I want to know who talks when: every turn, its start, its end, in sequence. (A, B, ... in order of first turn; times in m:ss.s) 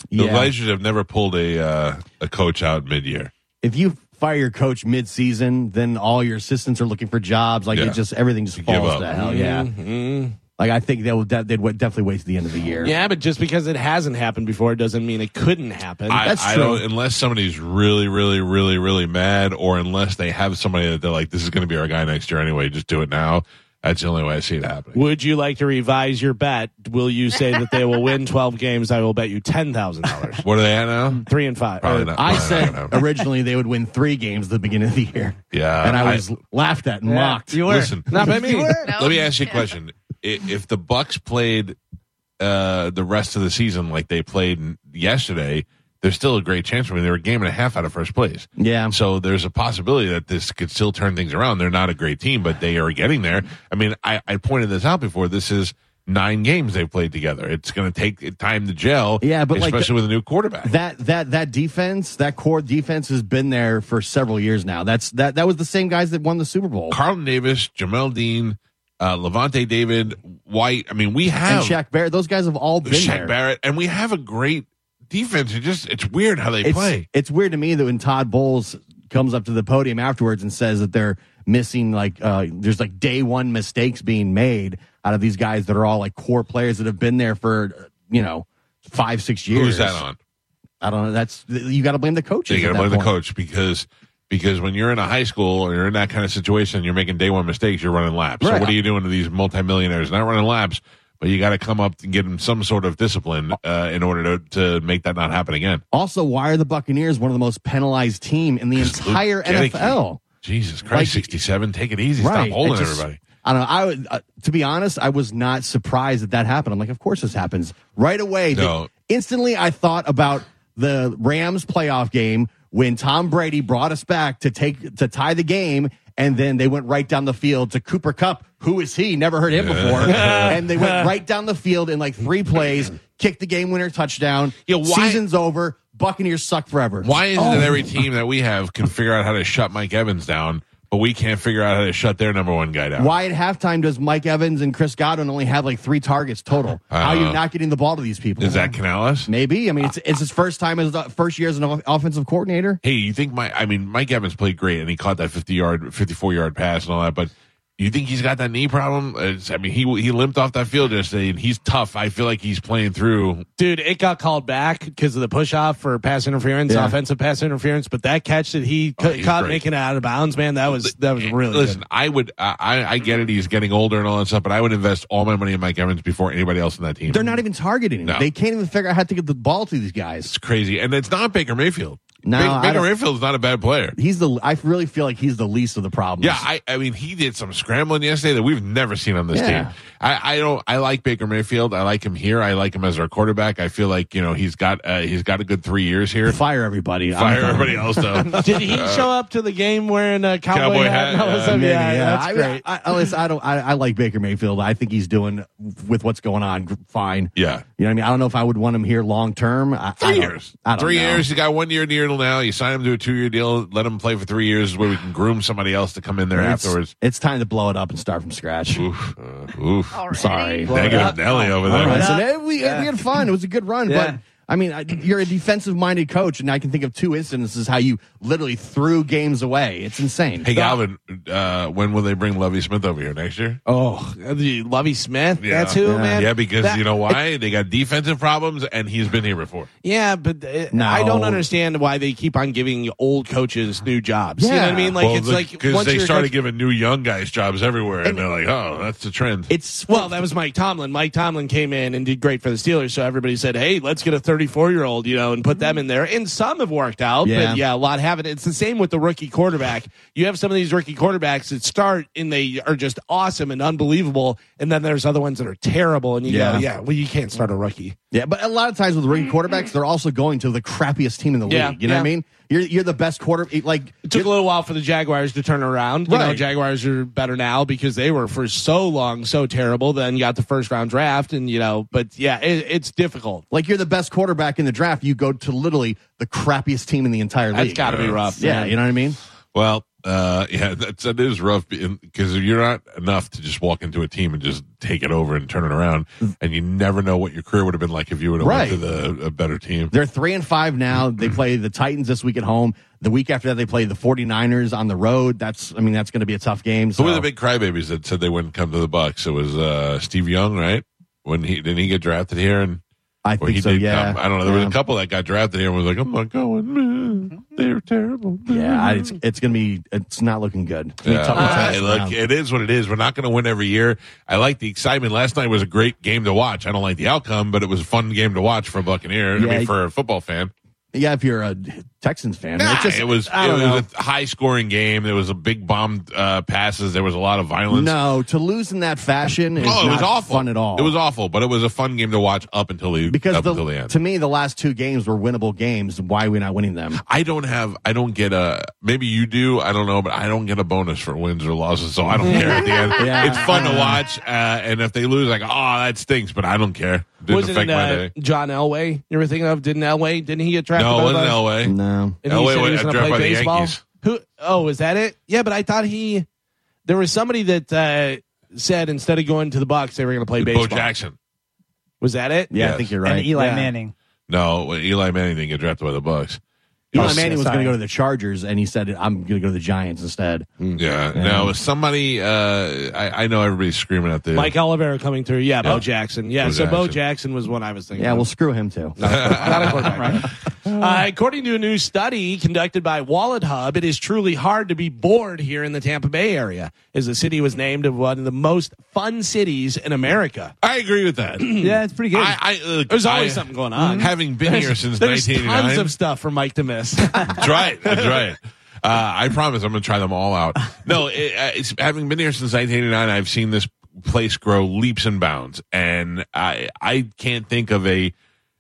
0:00.1-0:00.5 A
0:00.2-0:03.3 B
0:03.6-0:09.7 A
0:07.7-0:08.0 B
0:08.6-0:09.1 B
0:09.1-0:10.4 C
0:10.6-0:12.9 A
0:12.8-0:16.3 C
0:16.1-0:25.0 B
0:16.2-0:16.8 A
0:24.9-0:30.4 C
0:30.4-0:31.3 B
0:31.2-0:32.6 C
0:31.8-0:33.0 B
0:31.9-0:37.7 A
0:35.5-0:36.2 B
0:37.1-0:38.9 D
0:37.6-0:41.8 B
0:38.1-0:38.8 C
0:38.8-0:39.7 E
0:42.4-1:00.7 B
0:48.6-0:49.0 A
0:59.2-0:59.9 A
1:00.6-1:07.0 A
1:06.9-1:11.8 B
1:11.4-1:13.3 A
1:12.9-1:17.0 B
1:16.6-1:30.0 A
1:29.5-1:30.2 B
1:30.8-1:33.1 A
1:32.5-1:45.8 B
1:38.4-1:38.7 A
1:45.9-1:50.2 A
1:48.8-1:53.2 B
1:50.9-1:51.3 A
1:52.2-2:17.8 A
1:58.5-1:58.9 B
2:09.5-2:10.6 B
2:10.0-2:11.1 C
2:14.7-2:15.2 B
2:17.0-2:23.1 B
2:23.0-2:32.8 A
2:26.9-2:27.4 B
2:28.4-2:29.3 B
2:32.8-2:43.4 B
2:43.6-2:51.8 C
2:46.7-2:47.0 A
2:49.0-2:49.6 B
2:50.8-2:57.4 B
2:57.1-3:00.3 A
3:00.3-3:04.0 B
3:02.2-3:02.9 A
3:04.0-3:06.4 A
3:06.2-3:16.4 B
3:09.3-3:09.7 A
3:16.2-3:18.6 A
3:17.1-3:19.1 B
3:18.4-3:22.6 C
3:20.5-3:21.6 B
3:21.5-3:31.3 A
3:27.4-3:27.6 B
3:30.0-3:36.9 B
3:36.3-3:38.9 A
3:38.8-3:40.0 B
3:39.9-3:40.8 E
3:40.1-3:50.5 A
3:40.6-3:42.1 B
3:40.7-3:42.9 D
3:43.9-3:44.2 D
3:50.4-3:53.6 B
3:50.5-3:50.8 C
3:53.7-3:57.2 C
3:55.4-3:59.7 B
3:55.8-3:56.2 A
3:59.8-4:06.3 C
4:00.7-4:01.4 A
4:04.4-4:05.0 A
4:05.0-4:09.5 B
4:09.5-4:10.2 A
4:09.9-4:28.0 C
4:17.2-4:17.6 A
4:26.2-4:26.7 A
4:28.1-4:34.3 A
4:31.5-4:32.1 C
4:34.1-4:43.4 C
4:36.1-4:36.4 A
4:43.5-4:49.2 A
4:47.5-4:48.7 C
4:47.8-4:48.3 B
4:49.5-4:59.9 B
4:58.4-4:58.8 A
4:59.9-5:07.3 A
5:07.0-5:12.8 B
5:13.2-5:14.8 A
5:13.4-5:19.2 B
5:18.5-5:22.2 A
5:21.0-5:30.5 B
5:21.3-5:21.7 C
5:29.4-5:29.7 A
5:30.9-5:33.9 A
5:32.6-5:38.0 B
5:37.7-5:41.0 A
5:39.6-5:43.9 B
5:43.1-5:47.0 A
5:47.0-5:58.1 B
5:52.2-5:52.6 C
5:52.6-5:53.3 E
5:52.9-5:54.0 A
5:57.3-6:01.4 C
6:00.8-6:03.8 B
6:01.6-6:02.2 A
6:02.2-6:06.3 C
6:06.9-6:10.9 C
6:10.4-6:11.2 B
6:12.0-6:12.5 C
6:12.5-6:13.3 A
6:12.5-6:12.9 B
6:13.0-6:13.9 D
6:13.4-6:13.7 C
6:14.3-6:16.4 B
6:16.9-6:17.3 B
6:16.9-6:17.8 D
6:16.9-6:20.5 A
6:20.8-6:24.5 B
6:21.1-6:21.5 A
6:24.3-6:28.3 C
6:26.4-6:27.0 B
6:28.0-6:30.3 A
6:29.0-6:40.5 C
6:29.0-6:31.0 B
6:40.6-6:41.6 B
6:41.4-6:41.7 C
6:41.6-6:42.4 D
6:42.1-6:45.9 B
6:42.9-6:48.3 C
6:43.8-6:44.1 D
6:47.3-6:58.1 B